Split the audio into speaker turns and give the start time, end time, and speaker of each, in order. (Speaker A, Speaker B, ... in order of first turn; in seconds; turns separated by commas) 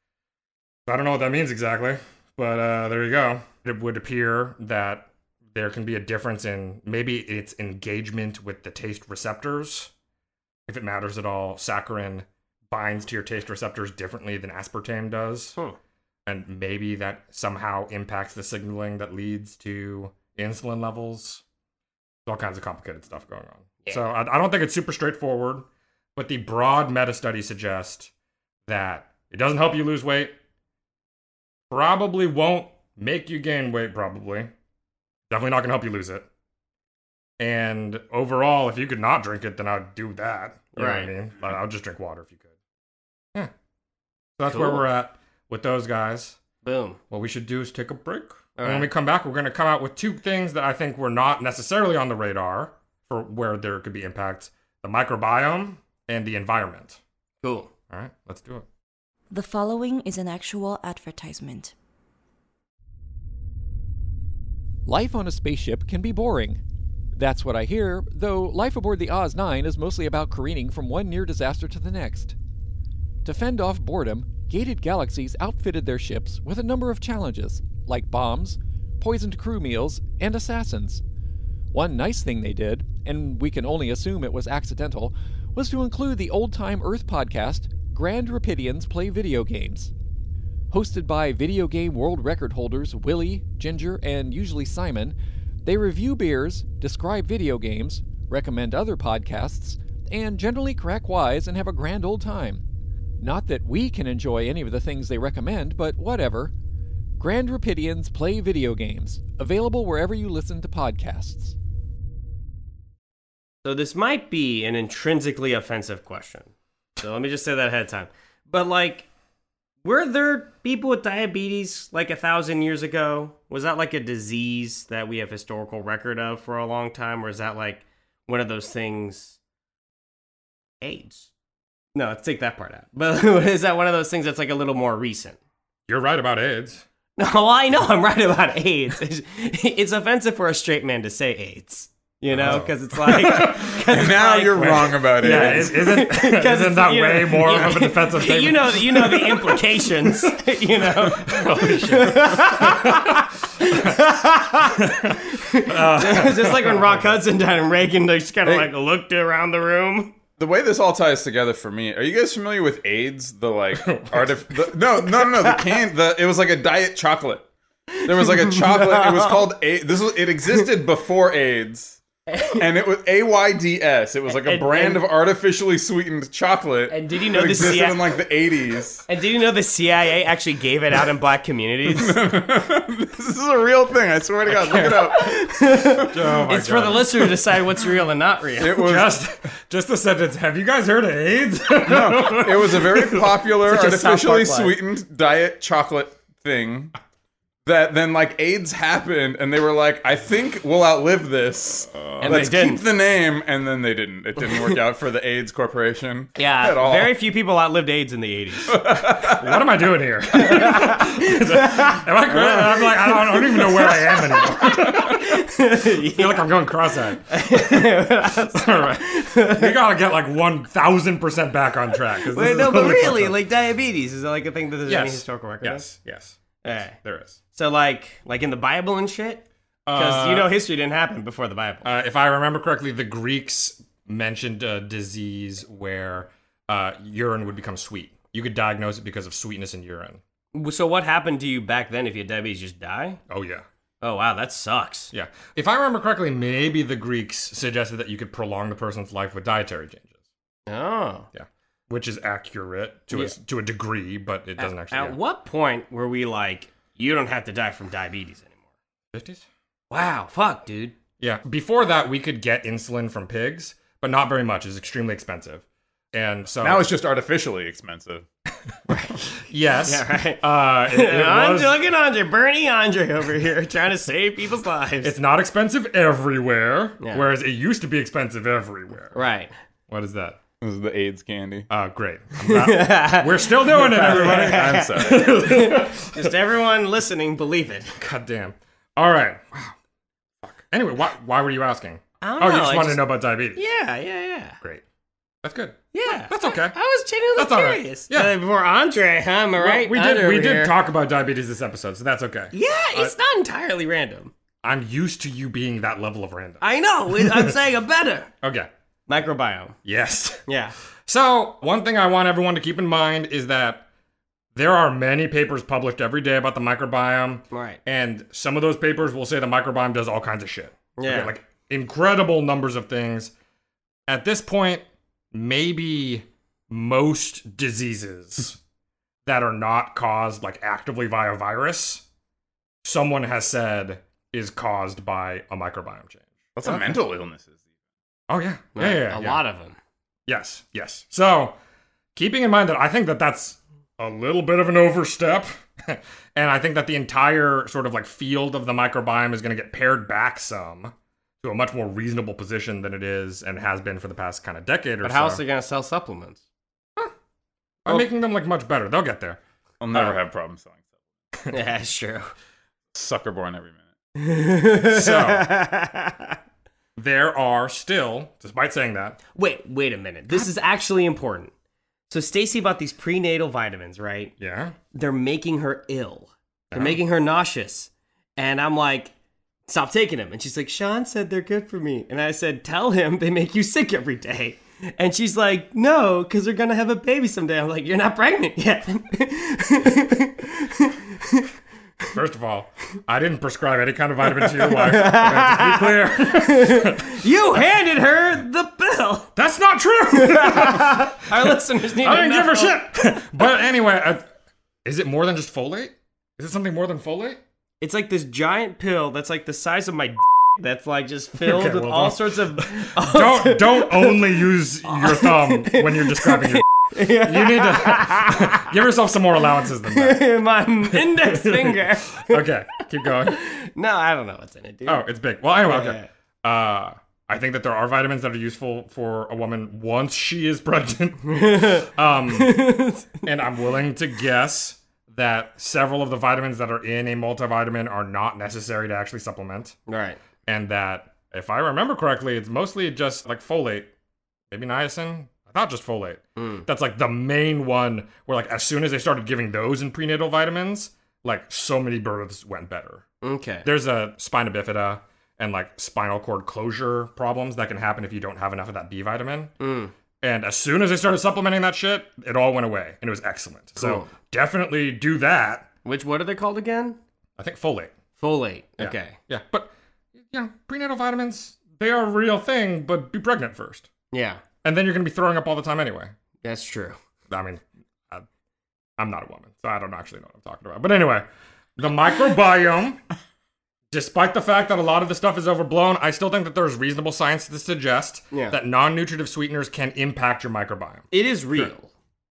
Speaker A: 0.9-9.9, Speaker A: 10.7-15.6, Speaker A: 16.3-21.4, Speaker A: 22.3-28.1, Speaker A: 28.7-30.3, Speaker A: 31.7-34.5, Speaker A: 35.3-36.3, Speaker A: 37.4-42.5, Speaker B: 40.8-41.1, Speaker A: 44.4-46.4, Speaker B: 44.5-44.8, Speaker B: 46.6-47.0, Speaker A: 47.1-57.0, Speaker B: 48.6-48.9, Speaker B: 57.4-57.7, Speaker A: 57.9-58.7, Speaker C: 59.3-61.7, Speaker D: 64.9-66.6, Speaker D: 67.2-72.4, Speaker D: 73.2-81.0, Speaker D: 81.7-89.9, Speaker D: 90.7-102.7, Speaker D: 103.2-106.5, Speaker D: 107.2-111.6, Speaker B: 113.6-119.1, Speaker B: 119.8-129.4, Speaker B: 130.8-131.3, Speaker B: 131.9-135.4, Speaker A: 135.9-136.8, Speaker B: 137.2-160.1, Speaker A: 142.4-143.8, Speaker E: 143.2-145.8, Speaker A: 144.6-150.2, Speaker A: 151.2-154.0, Speaker A: 154.8-157.1, Speaker E: 160.4-167.5, Speaker A: 163.8-164.3, Speaker B: 167.9-169.5, Speaker E: 168.0-172.0, Speaker B: 172.3-172.6, Speaker E: 172.5-179.1, Speaker B: 174.3-175.0, Speaker B: 176.9-178.0, Speaker B: 179.1-182.2, Speaker E: 181.9-185.5, Speaker A: 184.7-185.0, Speaker B: 185.0-188.7, Speaker A: 186.0-187.3, Speaker E: 188.6-189.2, Speaker A: 188.7-193.3, Speaker E: 191.8-196.9, Speaker B: 193.6-194.8, Speaker E: 197.7-207.2, Speaker B: 202.2-202.8, Speaker B: 206.4-208.8, Speaker E: 208.7-209.5, Speaker A: 209.0-215.4, Speaker B: 210.3-212.0, Speaker B: 213.5-216.5, Speaker A: 216.0-217.9, Speaker B: 217.3-219.7, Speaker A: 218.5-223.4, Speaker B: 222.3-225.9, Speaker A: 224.9-227.4, Speaker B: 226.6-226.9, Speaker B: 227.5-231.9, Speaker A: 229.9-230.5, Speaker A: 231.8-240.2, Speaker B: 240.5-243.2, Speaker A: 243.3-243.7, Speaker B: 244.0-245.1, Speaker A: 245.1-250.1, Speaker B: 250.7-251.3, Speaker A: 251.3-255.2, Speaker B: 254.6-258.6, Speaker A: 259.1-259.4, Speaker B: 259.9-261.0, Speaker A: 261.2-266.9, Speaker E: 266.6-268.3, Speaker B: 268.9-269.4, Speaker A: 269.5-271.8, Speaker B: 269.9-275.1, Speaker A: 275.0-279.2, Speaker B: 279.1-279.5, Speaker A: 279.9-280.4, Speaker E: 280.6-281.7, Speaker A: 281.7-286.3, Speaker B: 282.4-288.0, Speaker E: 284.0-285.4, Speaker A: 288.0-289.7, Speaker A: 290.4-293.6, Speaker B: 292.2-293.0, Speaker B: 293.6-294.6, Speaker A: 295.4-296.8, Speaker B: 295.9-300.7, Speaker A: 297.4-298.3, Speaker A: 299.6-303.1, Speaker B: 302.5-304.3, Speaker A: 304.6-307.5, Speaker B: 306.6-308.3, Speaker A: 308.4-308.7, Speaker B: 309.1-309.8, Speaker A: 309.9-310.4, Speaker B: 310.5-310.8, Speaker A: 311.1-313.9, Speaker A: 314.6-323.3, Speaker B: 317.5-317.8, Speaker B: 321.0-321.3, Speaker A: 324.1-328.6, Speaker A: 329.3-332.0, Speaker A: 332.8-337.0, Speaker E: 336.6-337.6, Speaker A: 338.3-339.4, Speaker B: 338.8-339.8, Speaker A: 340.3-341.6, Speaker A: 342.1-355.4, Speaker B: 355.0-356.4, Speaker A: 357.9-359.4, Speaker E: 359.8-360.8, Speaker B: 361.5-362.3, Speaker E: 362.9-363.8, Speaker B: 364.2-366.4, Speaker A: 364.9-365.6, Speaker A: 367.0-369.2, Speaker B: 369.4-371.5, Speaker B: 372.1-374.3, Speaker A: 374.4-374.8, Speaker B: 374.9-379.1, Speaker A: 376.7-377.0, Speaker B: 379.7-391.5, Speaker A: 392.1-397.2, Speaker B: 394.3-399.3, Speaker A: 399.4-404.2, Speaker B: 400.1-402.8, Speaker A: 404.9-407.4, Speaker B: 407.8-414.4, Speaker A: 411.4-420.2, Speaker B: 414.9-418.7, Speaker B: 419.9-422.4, Speaker A: 420.9-423.4, Speaker B: 423.2-425.0, Speaker A: 424.9-432.6, Speaker B: 425.7-426.1, Speaker B: 431.3-433.2, Speaker A: 433.2-439.8, Speaker B: 439.9-440.2, Speaker A: 440.5-443.9, Speaker A: 444.5-453.0, Speaker B: 446.4-446.7, Speaker B: 453.2-453.7, Speaker A: 453.6-459.5, Speaker B: 459.6-459.9, Speaker A: 460.2-465.7, Speaker B: 463.8-464.1, Speaker B: 465.8-467.0, Speaker A: 467.4-467.9, Speaker B: 468.2-469.2, Speaker A: 468.8-469.7, Speaker A: 470.3-473.9, Speaker B: 474.1-474.4, Speaker A: 474.6-476.1, Speaker B: 476.4-477.0, Speaker A: 477.3-478.2, Speaker A: 479.0-481.2, Speaker A: 481.8-483.0, Speaker A: 483.9-491.7, Speaker B: 488.3-488.6, Speaker B: 491.1-491.9